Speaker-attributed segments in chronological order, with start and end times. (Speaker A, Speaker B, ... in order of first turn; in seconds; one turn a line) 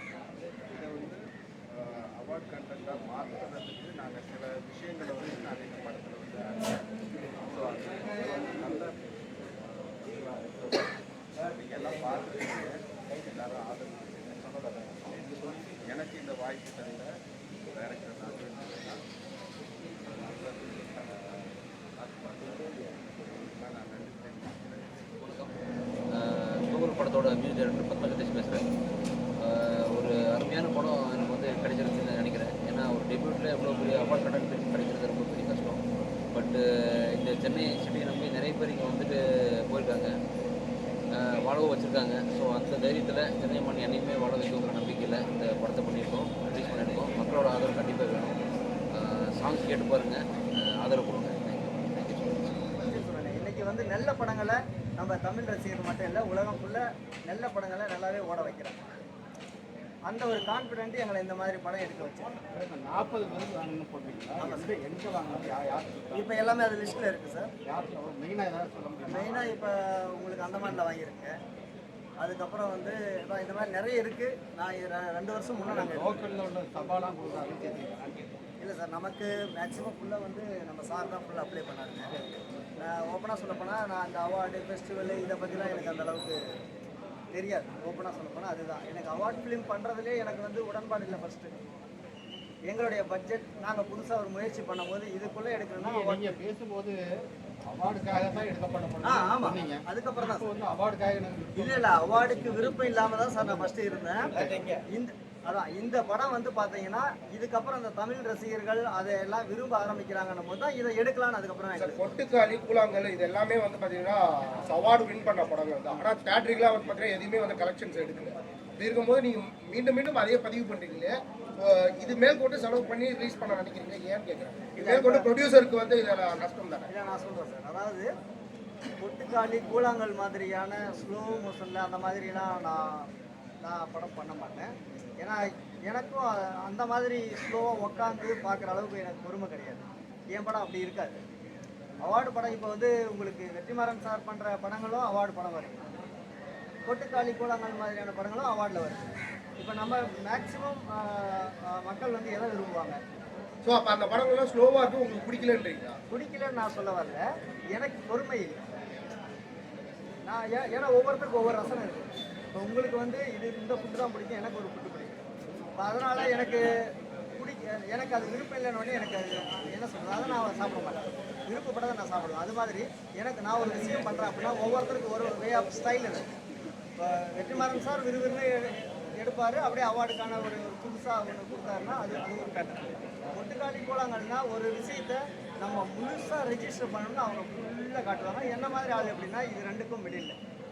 Speaker A: 0.7-11.0
Speaker A: 11.5-15.3
Speaker A: 15.9-17.1
Speaker A: 17.7-19.0
Speaker A: 20.0-25.1
Speaker B: 25.2-25.5
Speaker B: 26.2-28.6
Speaker B: 29.4-35.8
Speaker B: 36.4-36.6
Speaker B: 37.2-39.1
Speaker B: 39.7-40.1
Speaker B: 41.2-48.4
Speaker B: 49.0-52.6
Speaker C: 52.8-59.0
Speaker C: 60.1-62.3
Speaker D: 62.5-66.3
Speaker C: 64.4-64.7
Speaker C: 66.1-67.5
Speaker D: 67.7-69.3
Speaker C: 69.1-71.3
Speaker C: 72.2-76.2
Speaker D: 75.7-78.2
Speaker C: 78.6-82.1
Speaker C: 82.8-86.4
Speaker C: 87.3-91.6
Speaker C: 92.7-96.4
Speaker D: 95.8-97.0
Speaker D: 97.7-104.8
Speaker C: 99.0-100.5
Speaker C: 101.5-104.3
Speaker C: 104.9-112.0
Speaker E: 111.8-126.9
Speaker C: 124.8-125.3
Speaker C: 126.9-128.1
Speaker C: 129.0-132.9
Speaker C: 133.7-141.2
Speaker C: 142.0-145.9
Speaker C: 146.9-149.0
Speaker C: 149.6-153.0
Speaker E: 153.7-156.0
Speaker C: 156.1-157.2
Speaker C: 157.8-158.6
Speaker C: 160.3-165.2
Speaker C: 165.8-166.7
Speaker C: 167.4-176.2
Speaker C: 177.0-190.3